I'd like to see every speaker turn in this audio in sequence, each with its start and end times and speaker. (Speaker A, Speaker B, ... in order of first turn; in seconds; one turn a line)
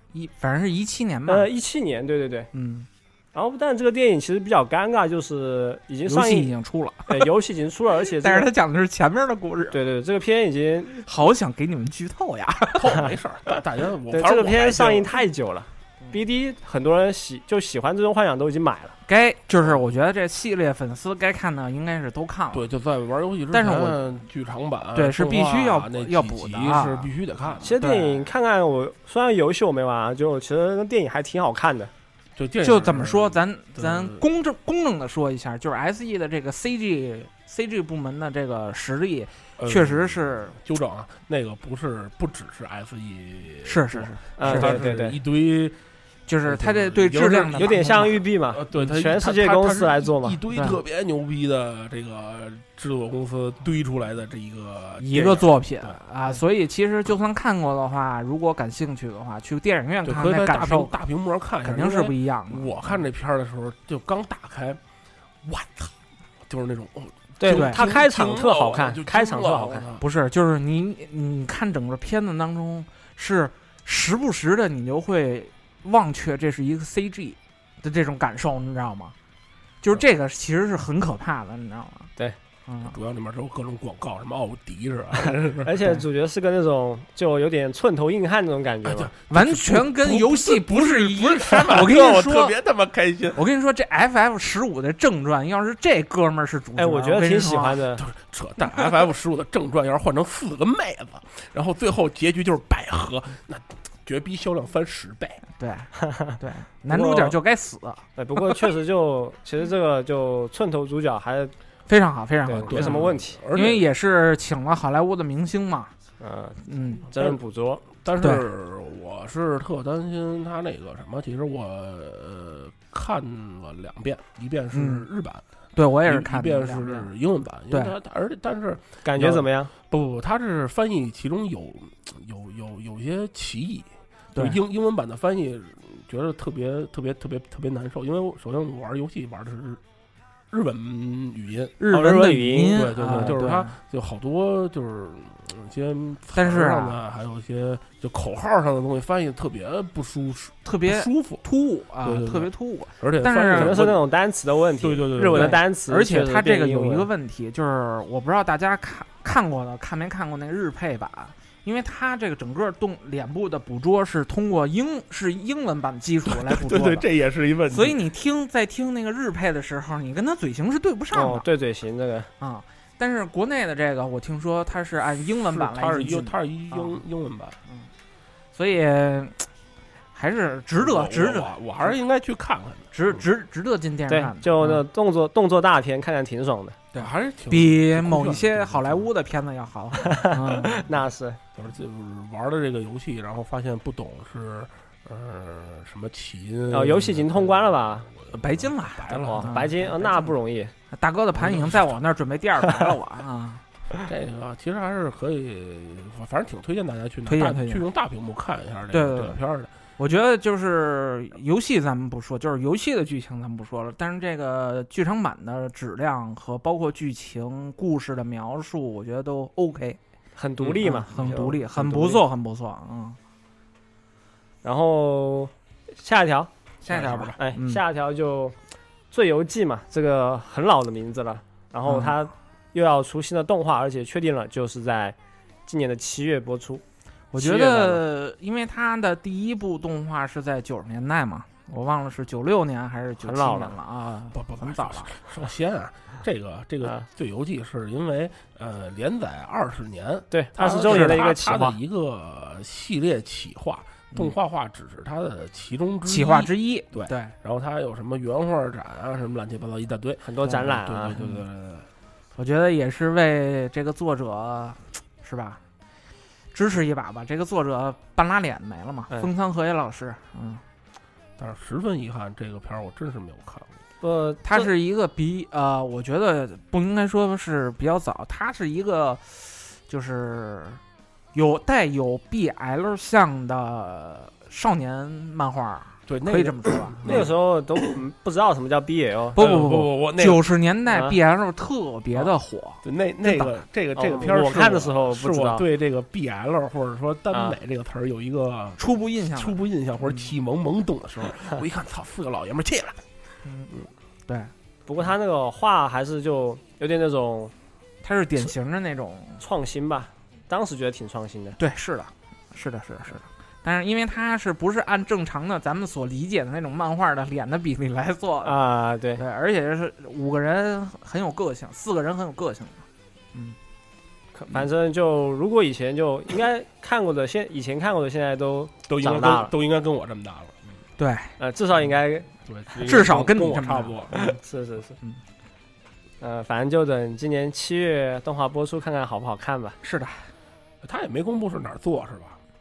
Speaker A: 0.1-1.5
Speaker B: 1.3-2.5
Speaker A: 2.5-2.9
Speaker B: 3.3-6.5
Speaker A: 6.1-7.3
Speaker B: 7.1-8.5
Speaker A: 8.1-9.8
Speaker B: 9.7-11.0
Speaker A: 11.0-13.0
Speaker C: 12.7-15.1
Speaker B: 14.1-18.9
Speaker A: 19.1-22.7
Speaker C: 22.5-27.7
Speaker A: 23.5-24.0
Speaker A: 24.9-28.2
Speaker B: 27.6-31.9
Speaker C: 32.4-34.2
Speaker A: 32.6-40.5
Speaker C: 39.6-45.8
Speaker A: 43.6-44.9
Speaker B: 44.4-45.1
Speaker A: 46.3-48.2
Speaker C: 46.4-56.0
Speaker B: 47.5-50.4
Speaker A: 50.5-50.8
Speaker A: 55.0-60.9
Speaker C: 60.0-64.8
Speaker A: 61.6-63.0
Speaker C: 65.4-65.9
Speaker C: 66.5-70.0
Speaker B: 67.4-69.8
Speaker A: 67.5-67.9
Speaker A: 70.0-79.1
Speaker A: 79.8-82.1
Speaker A: 82.7-83.0
Speaker C: 82.8-85.7
Speaker B: 85.6-89.1
Speaker C: 88.8-93.4
Speaker A: 89.3-92.5
Speaker A: 93.3-97.8
Speaker B: 96.8-98.0
Speaker C: 98.0-105.4
Speaker A: 105.6-108.0
Speaker B: 106.0-106.3
Speaker B: 106.9-107.4
Speaker B: 108.2-111.5
Speaker A: 111.9-115.9
Speaker B: 112.5-113.4
Speaker C: 112.6-113.9
Speaker B: 116.2-117.8
Speaker A: 116.6-117.1
Speaker C: 117.9-125.4
Speaker A: 118.2-118.5
Speaker A: 124.7-125.1
Speaker A: 125.7-127.1
Speaker C: 126.0-139.8
Speaker B: 129.0-129.7
Speaker C: 140.5-141.8
Speaker A: 141.8-143.7
Speaker B: 141.9-143.3
Speaker C: 142.7-151.4
Speaker A: 146.3-147.0
Speaker A: 150.6-153.8
Speaker C: 152.0-154.0
Speaker B: 153.5-157.1
Speaker C: 154.8-155.6
Speaker A: 155.3-167.1
Speaker C: 166.2-168.0
Speaker A: 167.7-171.4
Speaker B: 171.1-172.3
Speaker A: 172.4-177.0
Speaker C: 175.4-177.6
Speaker A: 178.5-179.5
Speaker A: 180.1-181.6
Speaker C: 180.8-183.2
Speaker A: 182.9-184.8
Speaker B: 184.1-186.8
Speaker A: 186.9-190.9
Speaker C: 186.9-189.1
Speaker B: 190.0-191.4
Speaker C: 191.5-199.6
Speaker B: 196.7-198.1
Speaker A: 198.3-200.3
Speaker B: 199.2-200.7
Speaker A: 200.9-203.6
Speaker C: 201.3-202.0
Speaker C: 204.0-209.7
Speaker A: 207.2-207.8
Speaker A: 208.9-209.4
Speaker A: 210.0-220.0
Speaker B: 220.3-222.2
Speaker C: 220.6-221.4
Speaker A: 220.8-223.2
Speaker B: 224.6-226.5
Speaker A: 226.8-227.8
Speaker C: 226.9-227.3
Speaker B: 227.3-228.6
Speaker B: 229.1-236.8
Speaker A: 231.8-232.2
Speaker A: 237.3-245.1
Speaker B: 237.3-238.0
Speaker B: 243.2-243.7
Speaker C: 244.3-261.9
Speaker B: 250.3-251.8
Speaker A: 250.8-251.3
Speaker A: 256.0-257.3
Speaker B: 260.2-261.2
Speaker A: 261.1-261.4
Speaker A: 262.4-265.6
Speaker A: 266.5-270.6
Speaker C: 271.4-273.7
Speaker B: 274.0-274.7
Speaker A: 274.4-280.8
Speaker A: 281.3-287.3
Speaker C: 286.1-287.3
Speaker B: 287.0-289.4
Speaker C: 289.3-290.4
Speaker A: 289.3-293.6
Speaker B: 290.9-291.1
Speaker C: 292.1-303.0
Speaker B: 293.9-295.6
Speaker A: 298.8-300.3
Speaker A: 303.4-303.7
Speaker B: 304.9-307.5
Speaker A: 308.0-309.4
Speaker B: 309.4-311.6
Speaker A: 311.6-318.6
Speaker B: 318.4-319.2
Speaker A: 319.2-323.6
Speaker B: 324.3-329.5
Speaker C: 328.9-330.7
Speaker A: 331.0-331.3
Speaker B: 331.4-332.3
Speaker C: 332.4-334.4
Speaker A: 332.8-334.1
Speaker B: 334.1-334.9
Speaker B: 336.2-339.8
Speaker A: 339.8-340.3
Speaker C: 340.8-342.4